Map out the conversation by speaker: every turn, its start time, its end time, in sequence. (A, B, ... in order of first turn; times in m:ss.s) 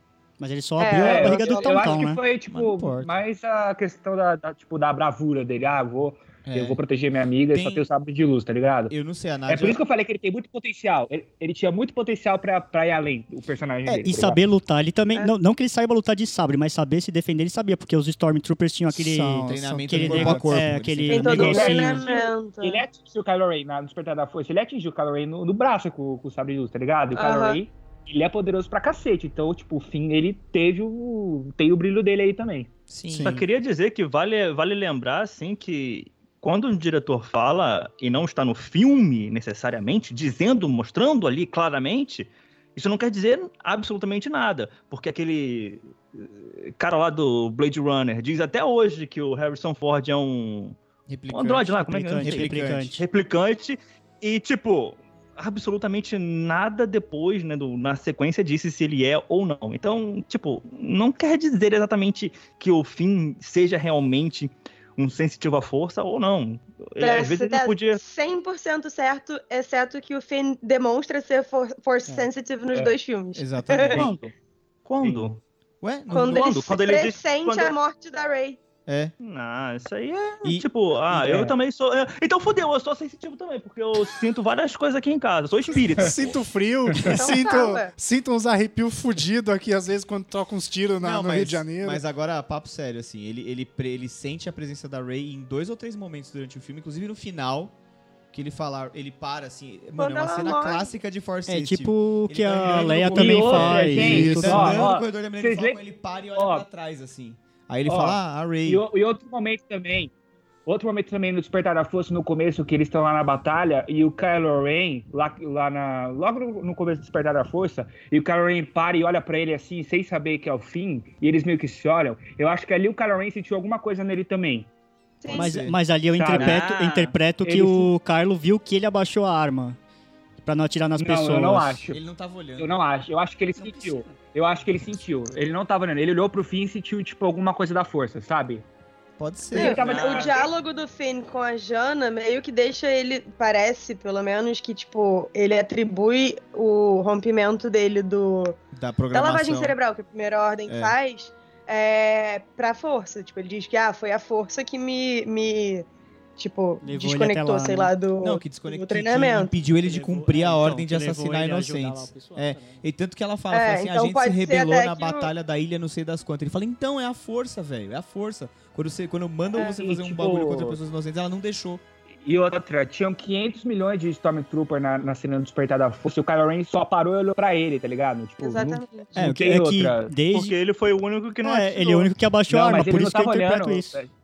0:00.4-0:02.2 A
0:00.8-0:02.0 B
0:00.9-0:08.9 C
0:02.5-0:03.2 D
0:06.4-0:06.8 D
0:07.5-0:07.9 D
0:08.9-0:09.8 D
0:09.5-0:14.4 C
0:13.9-0:22.0 A
0:18.9-0:20.7 E
0:19.4-0:21.9 D
0:21.1-0:22.8 B
0:21.4-0:32.7 C
0:27.1-0:27.6 B
0:32.9-0:33.4 D
0:33.1-0:50.8 F
0:51.1-0:52.9 D
0:51.3-1:08.0 F
0:51.8-0:53.0 A
1:07.0-1:14.1 B
1:13.3-1:14.1 D
1:13.9-1:14.3 F
1:14.9-1:15.4 F
1:15.8-1:16.5 D
1:16.1-1:18.6 B
1:16.2-1:17.8 F
1:18.9-1:19.1 D
1:19.2-1:26.3 F
1:21.1-1:21.5 C
1:26.0-1:32.0 E
1:27.2-1:27.9 B
1:31.0-1:37.7 D
1:38.3-1:48.8 D
1:40.0-1:40.9 B
1:41.5-1:44.9 A
1:43.1-1:45.8 C
1:44.0-1:44.6 E
1:46.3-1:46.6 C
1:47.8-1:50.1 C
1:50.6-2:04.7 C
2:05.2-2:05.5 B
2:05.3-2:09.8 A
2:05.3-2:05.7 D
2:06.2-2:06.6 C
2:06.3-2:07.1 F
2:07.4-2:07.9 C
2:10.4-2:11.8 A
2:11.0-2:12.0 C
2:11.9-2:12.8 D
2:12.6-2:18.6 C
2:13.6-2:14.2 A
2:19.2-2:19.8 D
2:19.5-2:20.4 C
2:19.5-2:28.6 B
2:19.7-2:20.5 F
2:28.7-2:29.8 D
2:29.1-2:35.8 B
2:30.7-2:30.9 D
2:36.4-2:39.5 B
2:36.8-2:37.9 A
2:38.2-2:51.8 D
2:39.6-2:42.8 A
2:43.5-2:45.3 B
2:49.5-2:50.8 C
2:52.2-3:00.1 C
2:58.4-2:59.1 B
2:59.2-3:00.6 A
3:00.3-3:02.1 F
3:01.4-3:04.0 A
3:02.5-3:04.1 C